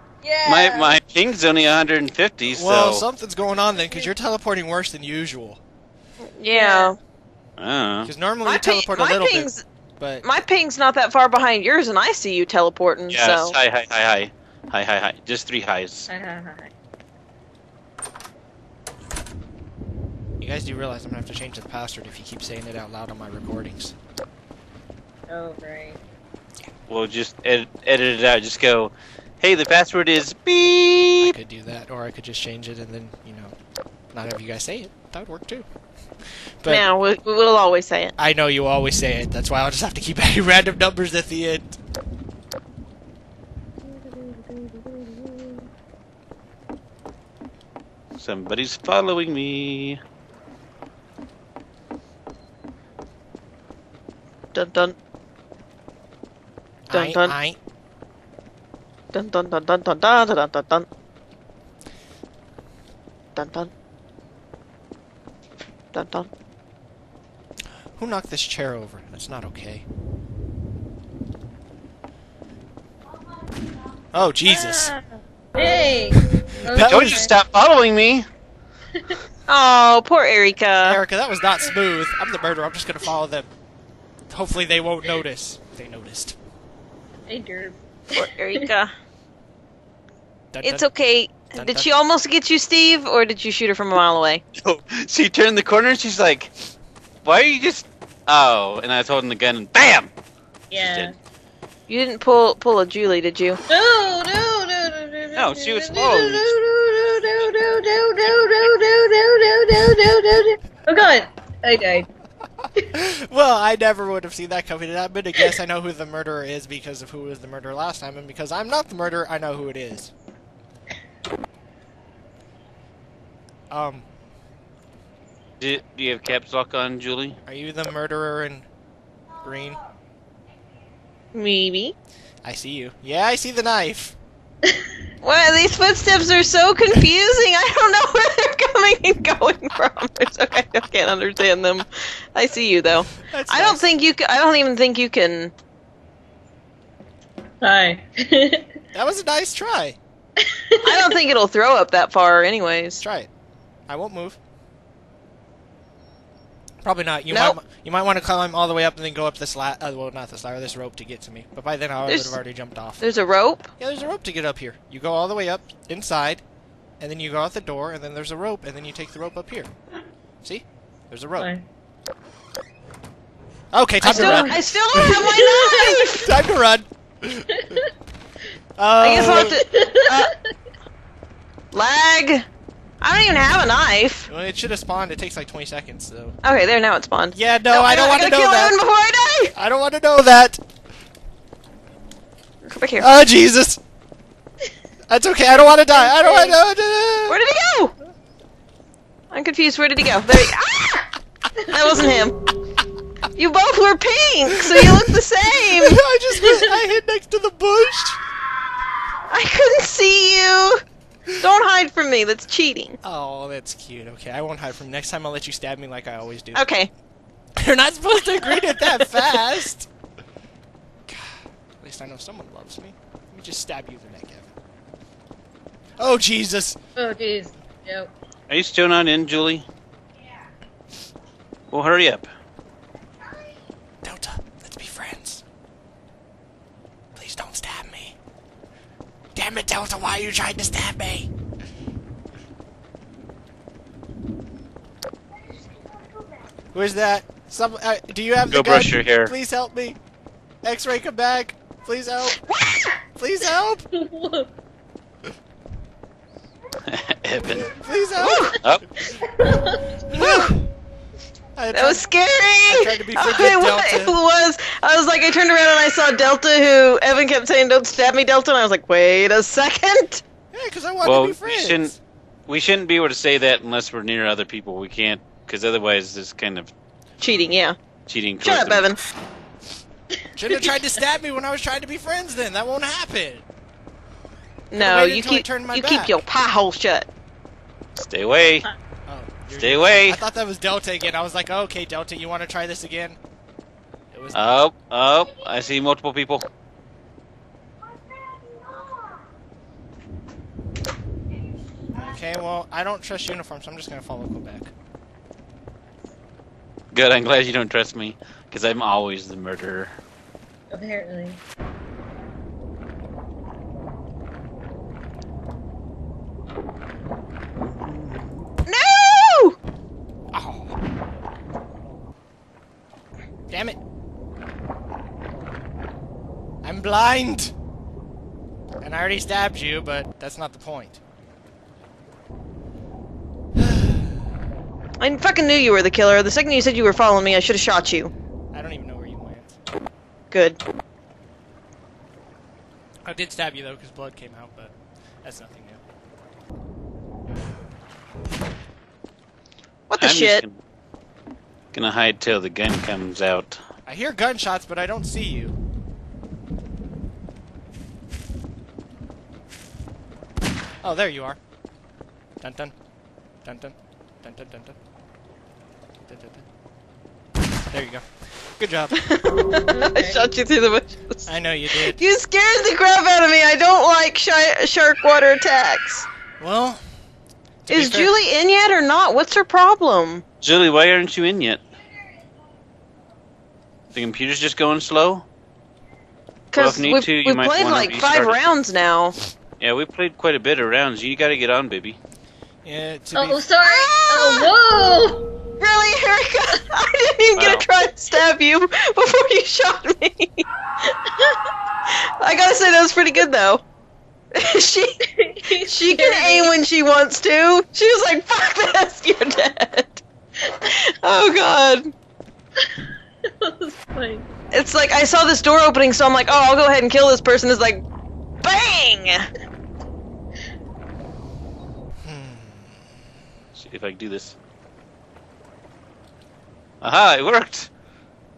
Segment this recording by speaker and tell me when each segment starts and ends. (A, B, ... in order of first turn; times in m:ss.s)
0:00.2-0:01.0 A
0:00.4-0:03.0 B
0:02.4-0:05.6 C
0:06.2-0:07.0 D
0:06.5-0:07.0 A
0:07.6-0:08.1 B
0:08.0-0:10.2 C
0:08.4-0:09.6 D
0:10.2-0:13.6 D
0:13.1-0:16.1 B
0:16.1-0:16.7 A
0:20.4-0:23.9 C
0:25.3-0:26.0 A
0:26.9-0:31.3 B
0:31.2-0:33.5 C
0:34.1-0:35.6 C
0:36.6-0:36.8 C
0:36.6-0:38.1 D
0:38.2-0:41.8 C
0:44.1-0:45.4 A
0:48.2-0:50.0 B
0:54.5-0:54.9 D
0:56.9-0:57.6 C
0:56.9-0:57.4 D
0:59.1-1:00.9 D
1:03.3-1:03.7 D
1:05.9-1:06.3 D
1:08.0-1:09.8 C
1:14.1-1:15.0 C
1:14.6-1:15.0 A
1:15.5-1:17.3 A
1:16.1-1:17.3 C
1:16.8-1:18.2 B
1:19.5-1:21.0 D
1:20.8-1:23.5 C
1:24.3-1:26.4 C
1:27.3-1:28.7 A
1:28.1-1:28.9 D
1:30.5-1:30.9 C
1:30.6-1:34.4 D
1:31.5-1:31.9 C
1:34.6-1:36.5 B
1:37.2-1:40.1 B
1:40.7-1:41.1 A
1:40.7-1:41.1 B
1:41.9-1:43.6 D
1:43.7-1:52.1 A
1:45.3-1:46.6 B
1:52.9-2:00.1 C
2:03.7-2:04.0 C
2:05.6-2:07.4 B
2:07.4-2:08.6 C
2:09.4-2:09.8 C
2:11.3-2:11.9 D
2:12.4-2:14.2 C
2:15.2-2:25.5 D
2:23.2-2:23.9 C
2:27.6-2:28.7 A
2:28.9-2:30.0 C
2:30.4-2:31.0 A
2:30.8-2:33.0 D
2:33.0-2:33.3 C
2:33.9-2:34.4 C
2:36.8-2:43.1 C
2:37.3-2:37.6 D
2:42.0-2:42.4 D
2:43.0-2:43.7 D
2:43.8-2:46.4 C
2:47.0-2:49.7 C
2:50.4-2:51.5 C
2:51.4-2:51.6 A
2:53.7-2:55.4 C
2:54.0-2:56.3 D
2:54.1-2:54.6 A
2:55.2-2:55.9 A
2:56.1-2:57.8 C
2:58.8-2:59.6 C
2:59.0-3:00.3 D
2:59.3-3:00.2 A
3:01.7-3:02.4 D
3:03.0-3:04.3 D
3:04.3-3:06.4 C
3:06.4-3:09.5 D
3:07.3-3:08.8 C
3:09.6-3:10.6 C
3:12.6-3:13.1 D
3:13.0-3:13.8 C
3:15.1-3:17.4 C
3:16.1-3:16.5 A
3:17.3-3:17.9 D
3:19.3-3:21.1 D
3:21.6-3:22.4 D
3:23.3-3:26.0 D
3:24.5-3:25.0 C
3:25.8-3:28.2 C
3:29.3-3:30.8 D
3:31.4-3:33.0 D
3:33.0-3:36.6 C
3:36.5-3:36.9 D
3:37.6-3:39.9 C
3:41.1-3:44.5 C
3:46.0-3:46.8 C
3:47.0-3:48.1 A
3:48.5-3:49.6 B
3:51.7-3:52.3 B
3:54.0-3:55.4 C
3:57.1-3:58.1 C
3:59.3-4:01.3 C
4:06.7-4:10.0 C
4:08.5-4:09.3 B
4:10.6-4:12.4 C
4:12.4-4:12.9 D
4:13.2-4:13.9 C
4:13.9-4:14.5 A
4:16.9-4:17.7 B
4:17.5-4:18.6 C
4:18.2-4:18.6 D
4:19.1-4:19.9 A
4:20.1-4:20.7 C
4:20.1-4:20.5 D
4:21.6-4:22.0 C
4:21.7-4:30.2 D
4:22.7-4:24.1 C
4:30.5-4:32.0 C
4:31.0-4:31.9 B
4:32.5-4:36.7 B
4:37.2-4:37.8 D
4:38.1-4:38.9 B
4:38.4-4:39.0 D
4:40.4-4:43.4 C
4:44.7-4:47.1 D
4:44.7-4:46.2 C
4:48.0-4:48.7 B
4:49.1-4:53.2 C
4:49.5-4:50.2 B
4:54.1-4:54.4 C
4:54.3-4:56.5 B
5:01.9-5:04.7 C
5:06.9-5:09.9 B
5:10.7-5:11.4 A
5:17.7-5:18.3 B
5:18.6-5:19.6 D
5:20.3-5:20.8 C
5:23.5-5:23.8 C
5:26.6-5:27.5 C
5:28.8-5:31.0 C
5:33.6-5:33.8 C
5:35.0-5:38.1 D
5:38.5-5:39.5 C
5:40.3-5:40.6 D
5:43.0-5:44.7 C
5:45.2-5:45.8 C
5:49.9-5:50.4 D
5:50.0-5:50.6 B
5:51.7-5:53.6 B
5:53.8-5:55.6 C
6:00.8-6:01.4 C
6:02.4-6:02.7 C
6:03.4-6:04.8 C
6:06.1-6:06.4 C
6:07.7-6:08.9 C
6:09.0-6:11.3 D
6:09.7-6:10.2 A
6:11.3-6:12.0 C
6:11.8-6:16.0 D
6:16.4-6:16.8 C
6:17.6-6:18.1 C
6:17.7-6:20.2 D
6:20.4-6:21.6 B
6:23.9-6:25.2 B
6:26.5-6:29.2 D
6:26.5-6:28.4 B
6:29.6-6:32.0 B
6:32.6-6:33.4 C
6:33.1-6:35.2 A
6:33.6-6:34.5 D
6:35.6-6:40.4 D
6:37.4-6:37.6 B
6:40.9-6:41.5 A
6:41.9-6:43.6 D
6:44.3-6:51.9 D
6:45.1-6:46.5 A
6:52.6-6:54.2 A
6:54.5-6:57.8 D
6:58.4-6:59.3 D
7:02.0-7:02.8 C
7:03.5-7:04.4 B
7:06.8-7:07.7 B